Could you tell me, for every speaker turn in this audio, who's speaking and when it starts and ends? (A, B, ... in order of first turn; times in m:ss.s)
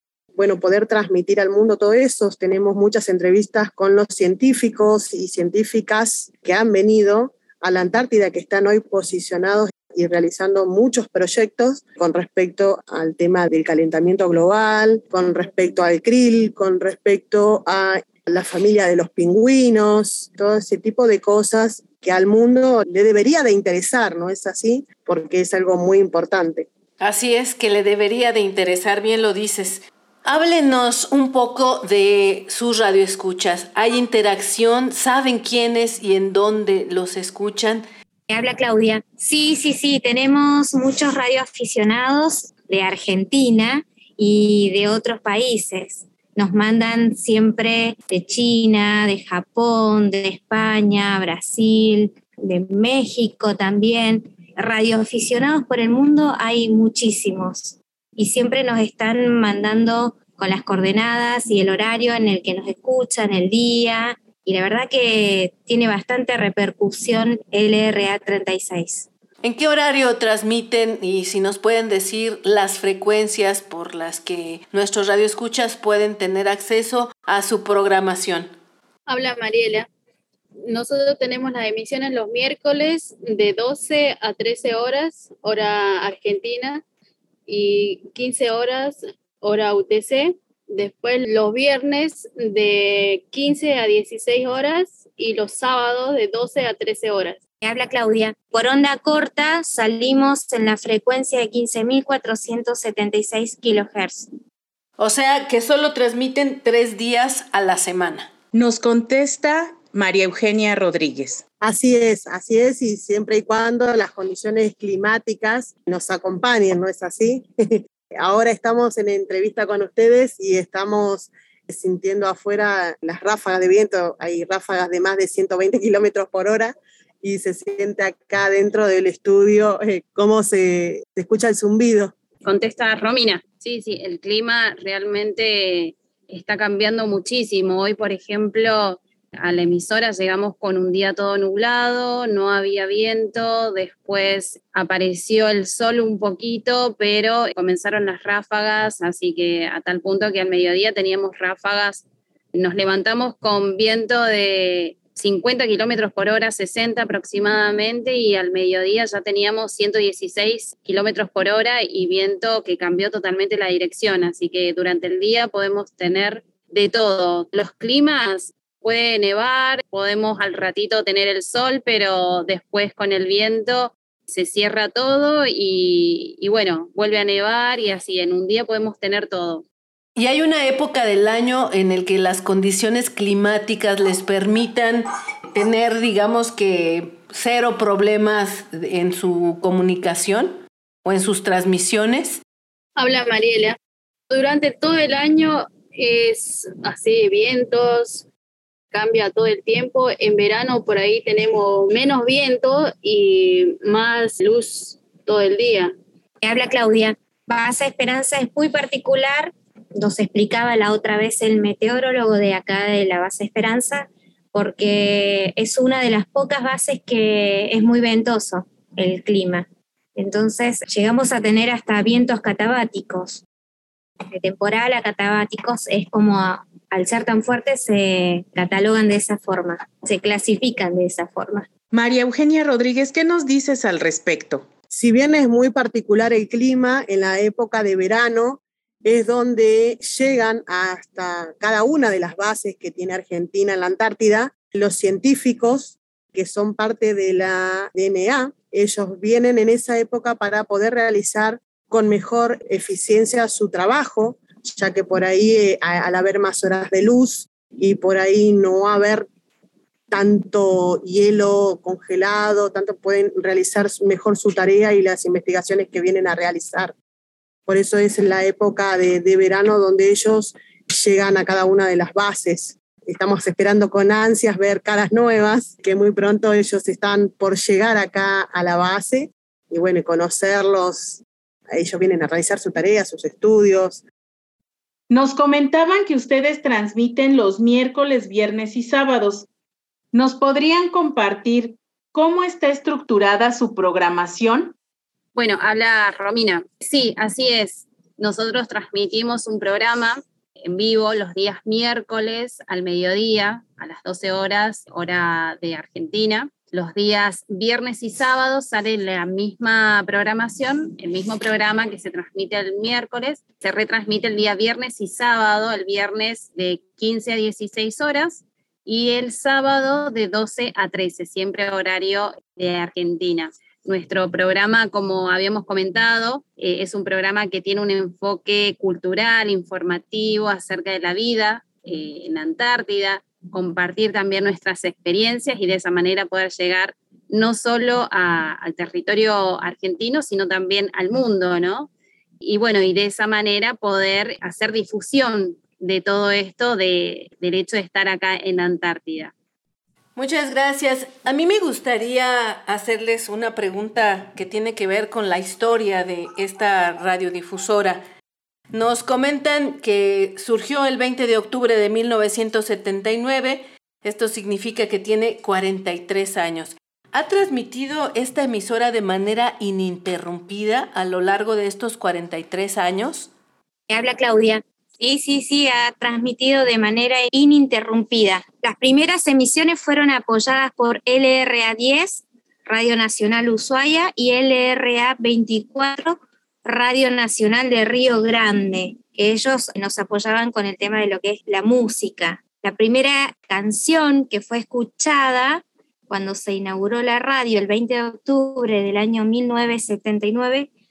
0:00.4-0:26.7 A
0:27.0-0:37.8 B
0:38.3-1:09.1 C
1:09.4-1:18.5 B
1:19.1-1:19.9 D
1:20.6-1:26.8 D
1:27.5-1:37.4 D
1:37.6-1:44.3 C
1:45.0-1:48.3 B
1:48.5-1:51.4 E
1:51.6-2:12.1 A
2:12.4-2:32.0 F
2:32.5-2:59.6 F
3:00.2-3:12.4 B
3:13.0-3:13.8 D
3:14.3-3:18.3 D
3:18.9-3:25.9 D
3:26.4-3:43.4 C
3:44.3-3:51.7 C
3:51.9-3:54.6 E
3:54.9-4:19.3 A
4:20.1-4:26.9 A
4:27.7-4:44.0 A
4:45.1-4:49.5 E
4:50.1-4:54.7 E
4:55.3-5:41.9 F
5:42.4-5:49.3 F
5:50.2-5:58.0 B
5:58.7-6:13.3 B
6:13.9-6:40.7 C